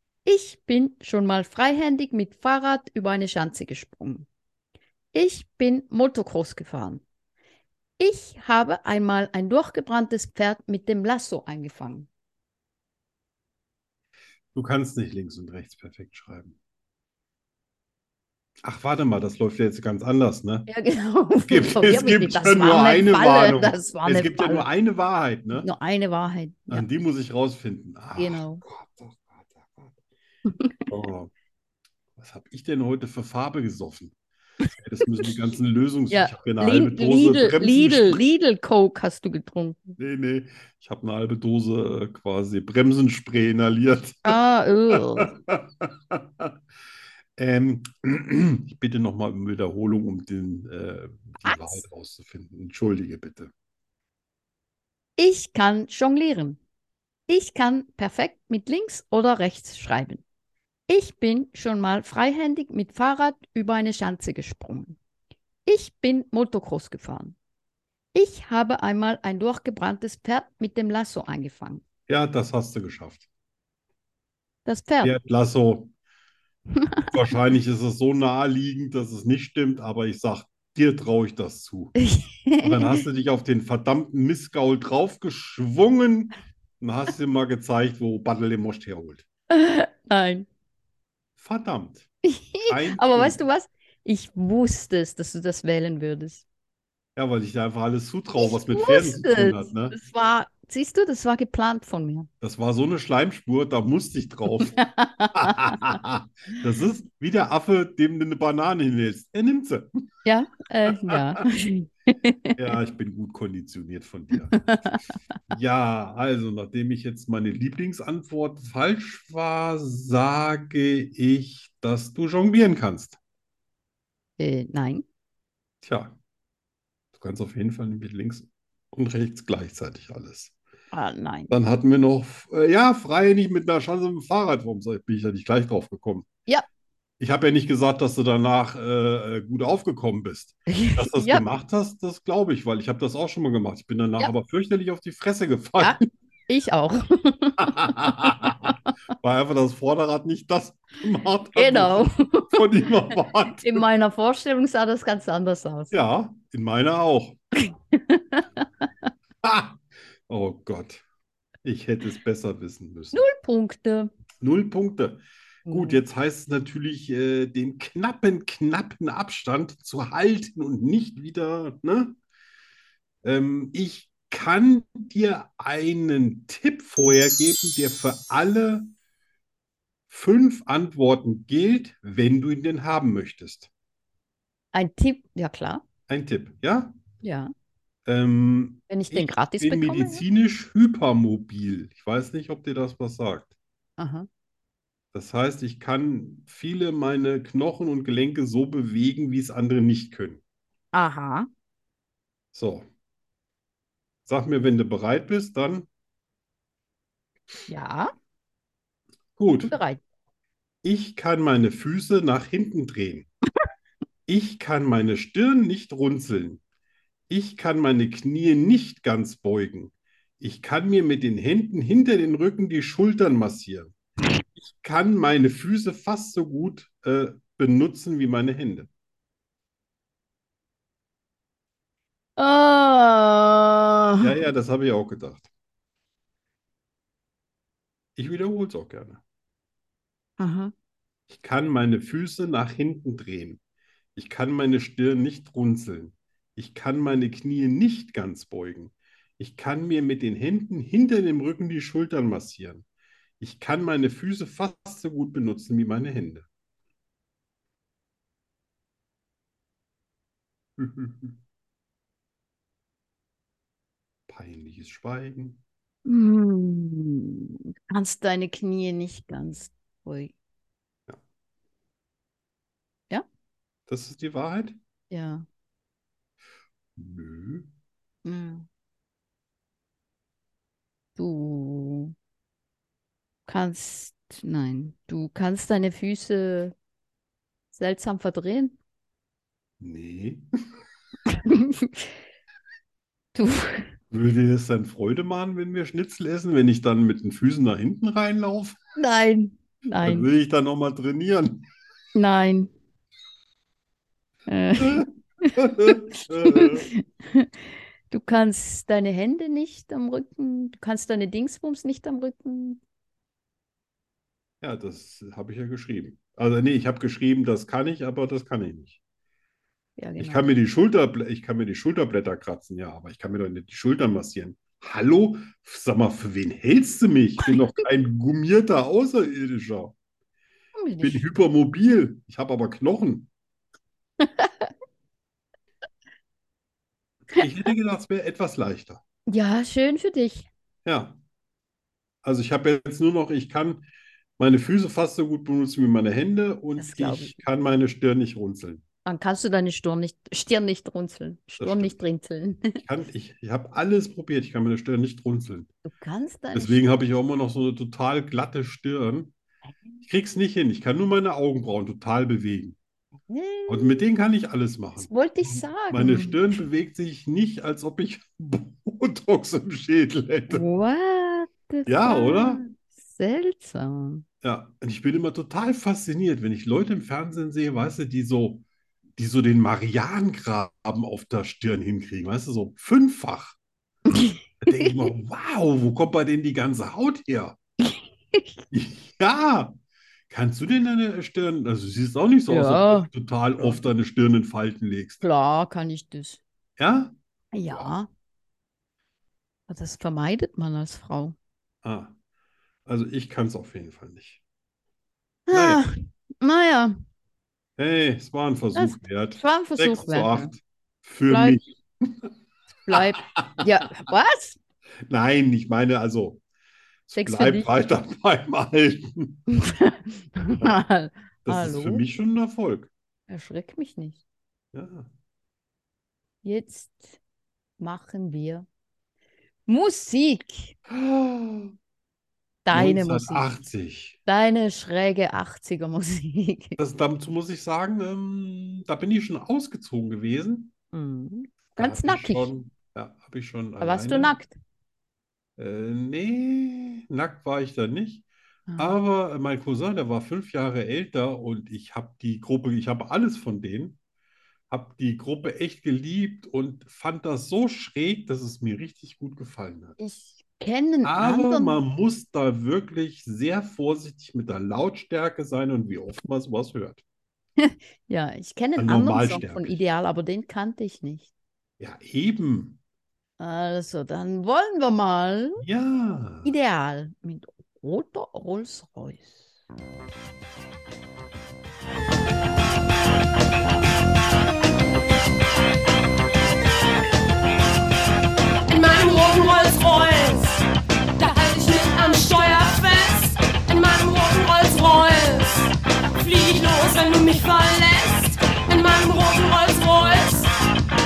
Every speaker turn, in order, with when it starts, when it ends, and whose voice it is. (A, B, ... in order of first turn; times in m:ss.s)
0:00.2-0:04.3 A
0:05.1-0:07.0 A
0:08.0-0:12.1 A
0:14.5-0:16.6 B
0:18.6-0:20.7 B
0:20.7-0:24.7 A
0:21.5-0:25.7 B
0:25.5-0:26.9 A
0:26.7-0:30.0 B
0:28.2-0:28.6 A
0:30.5-0:30.8 A
0:30.9-0:31.3 B
0:32.2-0:34.1 B
0:34.8-0:38.2 B
0:36.1-0:40.0 A
0:40.0-0:44.4 B
0:44.2-0:45.3 A
0:44.9-0:46.5 B
0:47.4-0:53.5 B
0:51.4-0:51.8 A
0:55.2-0:56.6 A
0:57.3-1:00.2 A
1:00.9-1:05.0 A
1:05.6-1:07.4 A
1:08.1-1:11.8 A
1:12.1-1:13.2 B
1:14.6-1:15.1 A
1:15.0-1:15.9 B
1:16.8-1:17.0 A
1:17.1-1:21.9 B
1:22.0-1:23.0 A
1:22.6-1:29.2 B
1:29.5-1:30.5 A
1:31.4-1:32.1 B
1:32.2-1:36.4 A
1:32.7-1:33.4 B
1:37.2-1:40.0 B
1:38.4-1:42.3 A
1:42.4-1:44.8 B
1:44.6-1:46.0 A
1:45.3-1:50.0 B
1:50.2-1:52.6 A
1:50.9-1:51.4 B
1:52.6-1:54.9 B
1:54.5-1:55.0 A
1:55.5-2:03.2 B
2:04.4-2:05.0 A
2:05.8-2:06.2 B
2:07.1-2:10.5 B
2:10.9-2:11.5 A
2:11.5-2:16.3 B
2:17.2-2:26.0 B
2:20.7-2:21.4 A
2:25.8-2:28.7 A
2:27.6-2:33.8 B
2:31.5-2:32.8 A
2:33.6-2:36.0 A
2:35.9-2:37.4 B
2:37.6-2:38.4 A
2:39.4-2:41.0 B
2:41.6-2:43.2 B
2:43.1-2:44.1 A
2:44.4-2:52.2 B
2:45.6-2:46.0 A
2:53.2-2:58.9 B
3:00.1-3:03.7 B
3:04.7-3:05.8 A
3:06.1-3:06.9 B
3:07.2-3:07.5 A
3:08.0-3:13.5 B
3:08.9-3:10.2 A
3:14.0-3:14.3 A
3:15.1-3:20.4 B
3:20.9-3:21.5 A
3:22.5-3:22.9 B
3:24.2-3:25.9 B
3:27.7-3:28.1 A
3:29.4-3:29.7 B
3:29.7-3:30.0 A
3:30.8-3:33.3 B
3:34.3-3:36.6 B
3:37.3-3:43.9 B
3:44.7-3:48.9 B
3:52.4-3:54.3 A
3:54.2-3:55.5 B
3:58.2-3:59.2 B
4:00.4-4:00.7 A
4:01.3-4:03.6 B
4:04.2-4:12.8 B
4:13.4-4:16.4 B
4:20.8-4:21.4 B
4:24.3-4:25.6 B
4:26.0-4:30.3 A
4:33.9-4:34.8 B
4:35.1-4:35.4 A
4:37.0-4:37.7 B
4:38.2-4:38.7 A
4:41.2-4:42.1 A
4:43.5-4:46.7 A
4:47.7-4:48.8 A
4:49.8-4:50.4 B
4:51.3-4:52.1 A
4:53.3-4:53.9 A
4:54.1-4:58.8 B
4:59.0-5:00.3 A
5:00.0-5:01.6 B
5:02.1-5:02.7 A
5:04.5-5:07.5 A
5:04.8-5:06.9 B
5:08.1-5:12.8 A
5:14.6-5:19.0 B
5:20.0-5:20.4 A
5:20.2-5:29.9 B
5:27.4-5:27.7 A
5:30.8-5:31.2 A
5:31.0-5:33.3 B
5:34.2-5:34.7 A
5:37.3-5:39.0 B
5:39.3-5:40.5 A
5:40.8-5:41.2 B
5:42.2-5:43.8 B
5:44.4-5:48.8 B
5:46.8-5:47.4 A
5:49.0-5:52.8 A
5:51.6-5:52.0 B
5:52.8-5:55.7 B
5:55.8-5:56.8 A
5:56.5-5:59.3 B
6:00.0-6:02.8 B
6:03.3-6:04.0 A
6:03.7-6:10.6 B
6:05.0-6:06.6 A
6:10.5-6:14.2 A
6:11.8-6:12.6 B
6:14.4-6:18.6 B
6:19.2-6:23.6 B
6:24.1-6:25.1 A
6:24.6-6:27.6 B
6:27.9-6:28.6 A
6:28.7-6:29.8 B
6:30.3-6:35.2 B
6:32.5-6:33.8 A
6:35.2-6:36.4 A
6:36.8-6:37.1 B
6:37.5-6:38.1 A
6:39.7-6:41.4 A
6:41.8-6:42.1 B
6:42.8-6:44.4 B
6:45.5-6:46.9 A
6:45.5-6:45.8 B
6:47.8-6:52.3 B
6:48.7-6:50.5 A
6:51.3-6:51.6 A
6:52.8-6:54.6 A
6:52.9-6:53.6 B
6:55.0-6:56.4 B
6:57.1-6:59.4 B
6:57.1-6:57.7 A
6:59.6-7:02.0 A
7:01.4-7:02.9 B
7:03.3-7:04.2 A
7:04.7-7:05.1 B
7:06.4-7:07.2 A
7:07.8-7:08.6 A
7:09.7-7:10.8 A
7:10.9-7:11.7 B
7:12.6-7:13.5 A
7:12.7-7:14.2 B
7:14.2-7:16.8 A
7:16.8-7:20.7 B
7:20.9-7:22.5 A
7:21.8-7:24.3 B
7:23.8-7:24.6 A
7:25.6-7:28.2 B
7:28.7-7:29.0 A
7:28.8-7:34.0 B
7:34.7-7:40.0 B
7:40.0-7:41.8 A
7:41.0-7:47.0 B
7:47.6-7:51.3 A
7:48.8-7:49.8 B
7:51.8-7:52.8 B
7:53.4-7:55.6 A
7:55.6-7:56.5 B
7:56.4-7:59.5 A
8:08.7-8:10.6 C
8:11.2-8:20.5 C